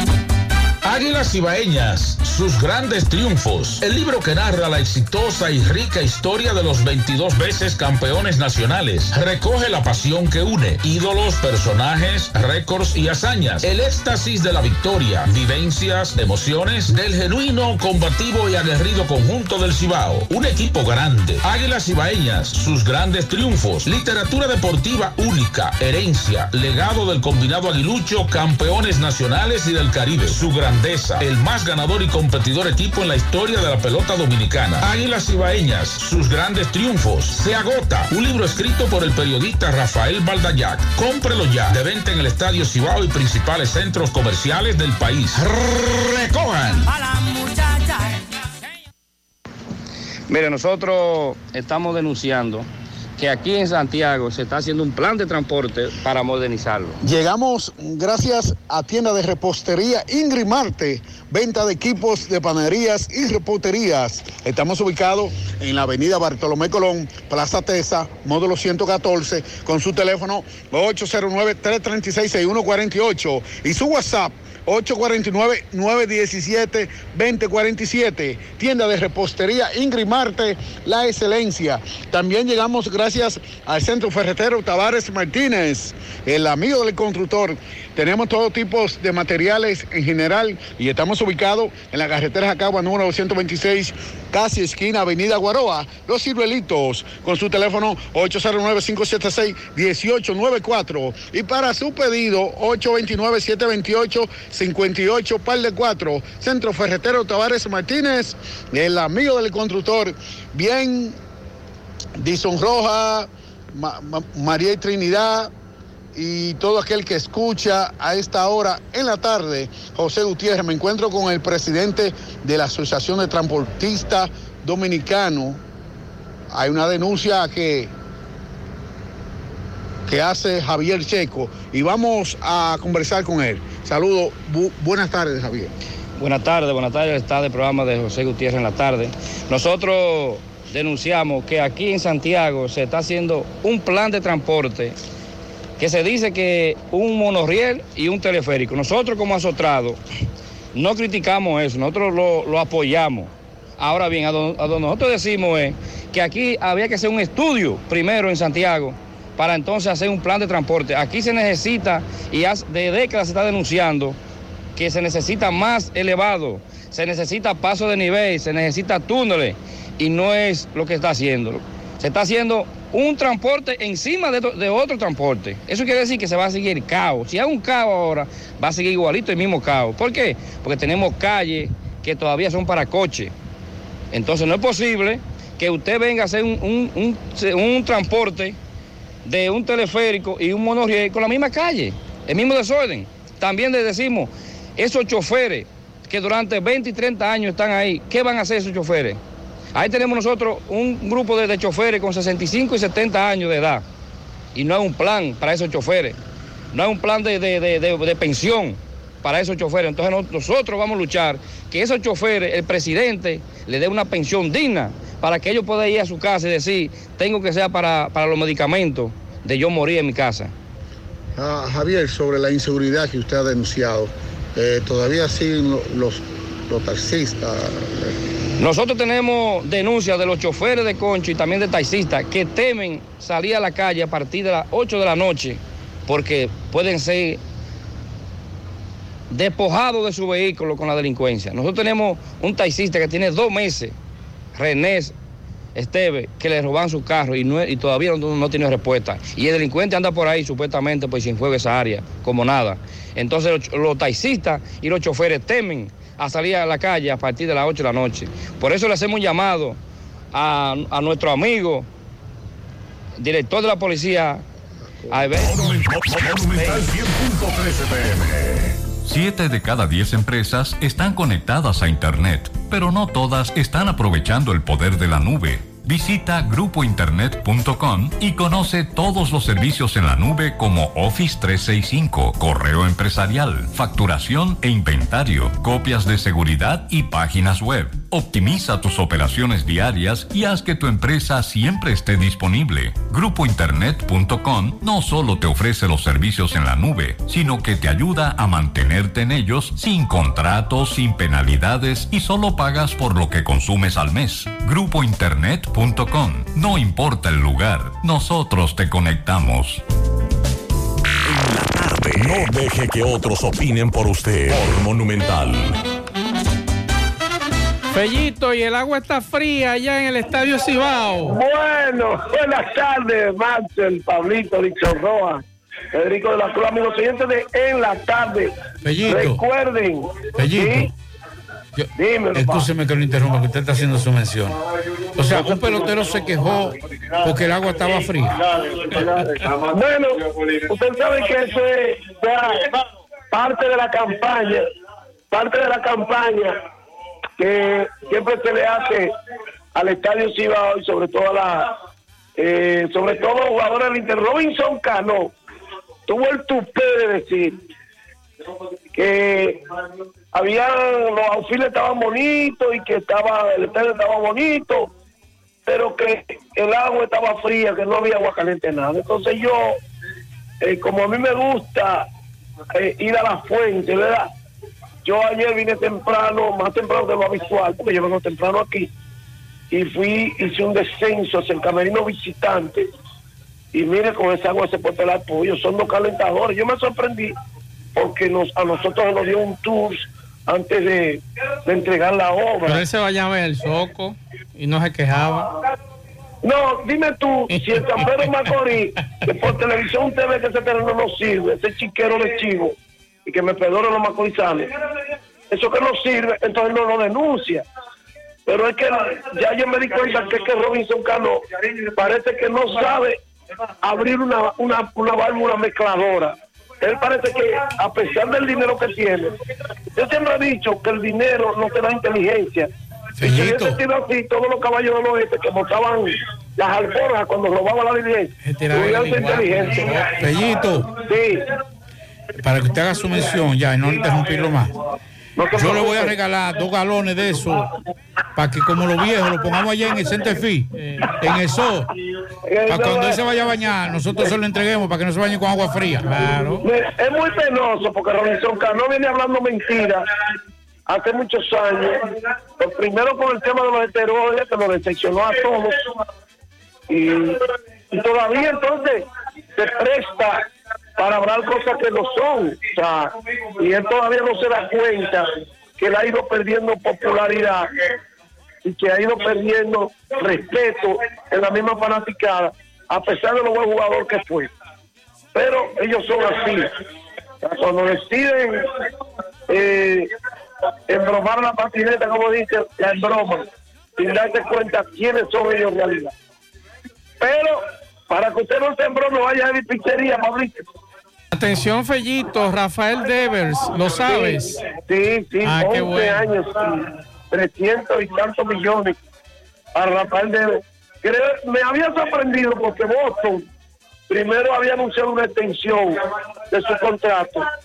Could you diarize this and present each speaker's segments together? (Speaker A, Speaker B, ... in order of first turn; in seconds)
Speaker A: 0.8-46.9
Speaker B: 50.3-52.7, 53.2-57.0, 136.2-145.0, 145.8-150.0, 150.7-164.2, 164.8-183.3, 184.1-188.6, 189.2-199.2, 199.8-203.8, 204.6-206.2, 206.7-220.5, 228.6-237.4, 239.3-243.9, 244.6-245.1, 245.8-259.8, 260.3-261.9, 263.2-264.4, 265.1-265.7
Speaker C: 57.0-111.2, 112.2-115.5, 116.2-125.6, 126.5-127.9, 130.1-135.7, 221.4-224.1, 225.8-226.2, 226.7-227.4
Speaker D: 265.3-268.8, 311.3-315.8
Speaker E: 269.0-309.8
Speaker F: 317.9-321.4, 392.7-395.5, 397.8-398.3, 428.4-430.3, 440.8-441.1, 446.0-446.6, 491.3-494.6, 495.4-496.2
Speaker G: 321.2-328.5, 329.1-330.9, 332.0-332.7, 339.5-342.6, 343.3-344.6, 345.3-346.6, 347.4-349.1, 349.8-351.7, 352.4-355.3, 356.1-357.6, 358.9-359.6, 360.3-364.9, 365.7-369.8, 370.6-372.1, 372.8-374.3, 375.0-378.9, 379.7-382.9, 383.7-387.4, 388.0-392.8, 396.4-402.7, 403.3-404.7, 405.5-407.6, 408.5-413.2, 413.8-419.3, 419.9-422.7, 423.2-429.9, 430.9-431.4, 435.4-436.1, 442.5-443.2, 446.6-450.0, 450.9-455.8, 456.9-460.4, 461.0-467.7, 468.6-474.5, 475.3-476.7, 477.4-478.7, 479.5-480.1, 480.9-483.5, 484.0-486.1, 487.2-490.6, 494.1-494.3, 494.9-498.9, 499.8-503.4, 504.1-506.0, 506.5-507.5
Speaker H: 328.8-329.4, 330.4-330.9, 331.8-334.6, 335.2-339.2, 423.2-423.8, 430.2-431.0, 432.4-434.8, 435.5-437.7, 438.4-441.9, 442.7-446.2